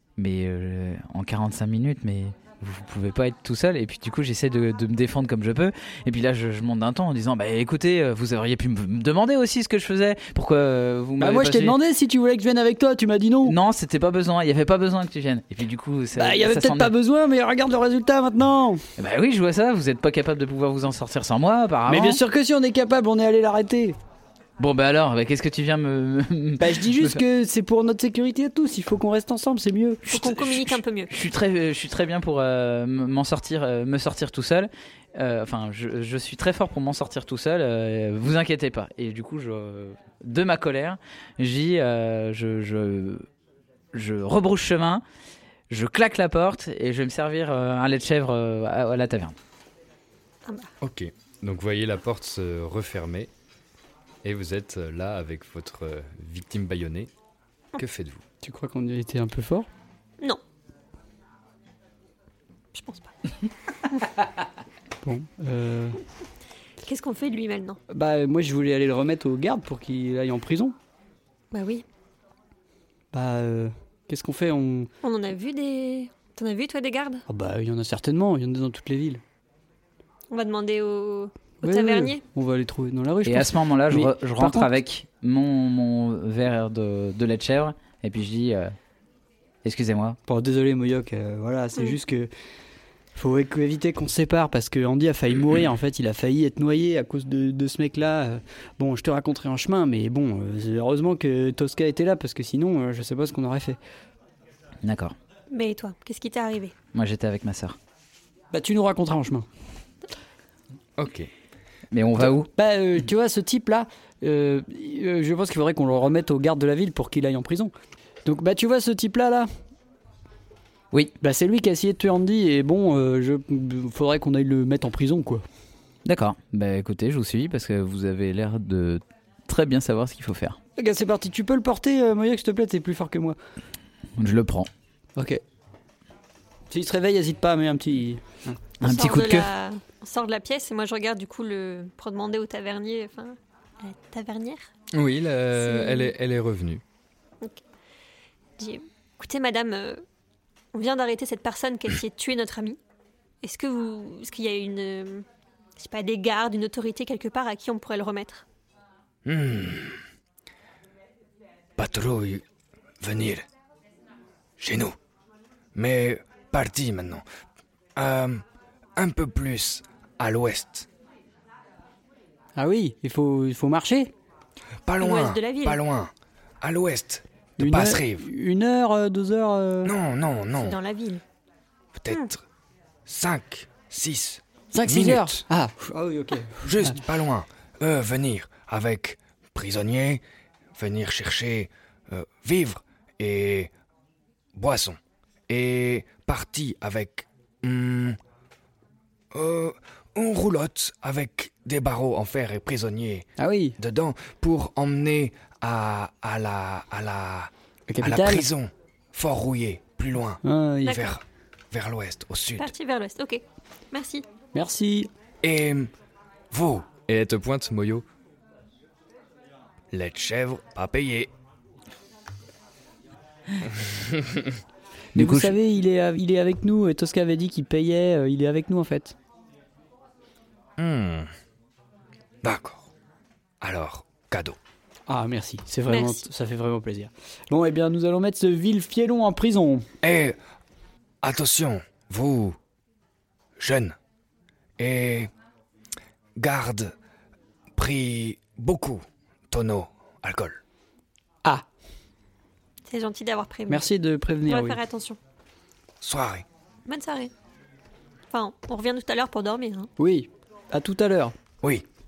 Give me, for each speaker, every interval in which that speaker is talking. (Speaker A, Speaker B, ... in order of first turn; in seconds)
Speaker A: 0.2-11.8, 13.4-16.9, 19.0-22.2, 24.6-27.2, 30.2-43.3, 43.9-45.0, 45.7-49.4, 83.2-88.7, 89.6-90.2, 104.8-105.2, 106.9-107.8, 111.9-112.5, 126.0-130.6, 134.2-134.7, 138.8-139.5, 225.2-225.5
Speaker B: 11.2-13.5, 16.1-18.9, 21.9-23.9, 26.6-30.2, 58.4-59.7, 65.0-66.0, 67.9-70.7, 73.1-74.9, 77.3-79.2, 81.6-84.7, 90.3-92.3, 93.1-103.8, 108.5-109.5, 112.2-117.7, 118.2-119.5, 121.2-125.4, 130.8-133.4, 135.2-135.4, 136.7-138.6, 172.6-174.1, 177.6-179.9, 184.7-187.0, 203.4-203.8, 207.9-208.5, 210.4-211.0, 214.5-215.1, 225.1-229.1, 235.1-239.8, 253.7-254.8, 260.0-261.3
Speaker C: 30.1-31.1, 62.7-63.1, 66.8-67.8, 71.5-71.8, 75.0-77.2, 80.3-82.2, 105.5-106.7, 138.8-144.7, 145.5-146.1, 148.6-150.0, 150.7-152.8, 153.4-155.2, 155.8-158.4, 175.0-175.8, 180.6-181.2, 210.8-211.2, 212.6-214.3, 235.9-236.3, 252.8-253.8, 254.4-255.2, 256.9-257.3, 258.3-259.9
Speaker D: 50.8-53.3, 54.2-57.1, 57.8-58.2, 111.0-111.3, 144.9-146.8, 217.0-218.0
Speaker E: 159.2-160.0, 161.8-162.4, 163.0-163.4, 164.6-164.9, 165.7-167.2, 167.9-168.4, 168.9-170.9, 174.8-178.2, 179.8-180.8, 181.9-182.4, 183.1-185.4, 186.6-190.2, 190.8-193.7, 194.6-195.0, 195.5-198.2, 199.3-212.7, 215.4-215.9, 216.5-216.9, 219.9-221.3, 230.8-231.3, 232.4-232.9, 233.6-234.6, 240.0-240.4, 241.2-242.6, 243.6-243.9, 244.8-245.3, 246.4-246.9, 247.8-250.6, 256.0-256.4